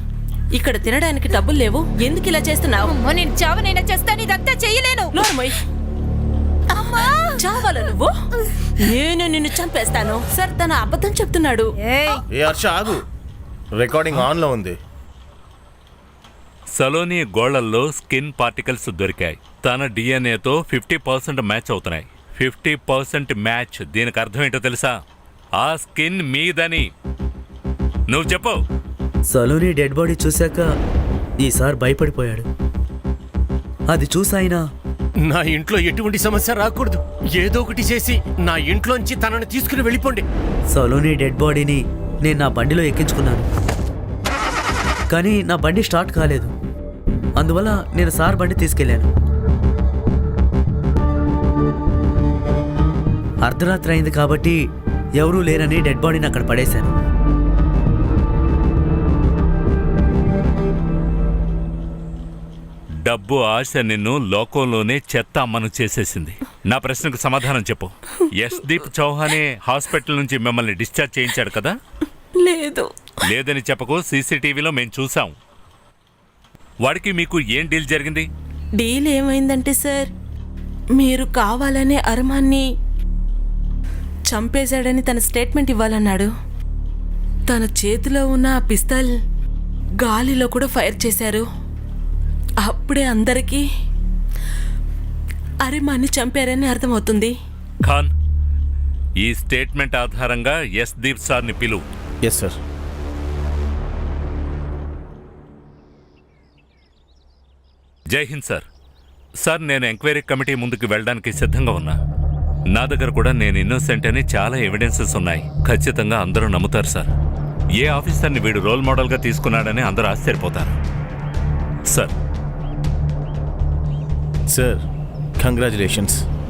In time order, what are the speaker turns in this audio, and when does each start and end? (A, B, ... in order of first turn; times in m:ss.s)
0:00.5-0:02.9 A
0:02.8-0:05.2 B
0:05.1-0:05.5 A
0:06.8-0:08.1 A
0:06.9-0:07.4 B
0:08.8-0:11.7 A
0:11.8-0:12.2 B
0:12.3-0:13.0 C
0:13.7-0:14.8 C
0:16.8-0:24.9 D
0:25.6-0:26.9 D
0:28.1-0:28.6 D
0:29.3-0:30.7 E
0:31.4-0:32.4 E
0:33.9-0:34.6 E
0:35.2-0:40.2 F
0:40.7-0:43.4 E
0:45.1-0:46.5 E
0:47.4-0:49.1 E
0:53.4-0:54.6 E
0:55.2-0:56.9 E
1:03.0-1:11.7 D
1:12.4-1:12.9 A
1:13.2-1:15.3 D
1:16.8-1:18.3 D
1:18.8-1:20.1 A
1:21.0-1:22.6 A
1:24.3-1:26.3 A
1:27.5-1:29.1 A
1:30.0-1:31.4 A
1:32.6-1:33.6 A
1:35.6-1:37.3 A
1:37.8-1:38.1 D
1:39.2-1:41.8 D
1:42.2-1:42.6 C
1:48.1-1:48.6 D
1:49.4-1:52.0 D
1:52.7-1:57.1 D
1:57.8-2:00.8 D
2:04.5-2:04.8 C
2:05.4-2:06.2 C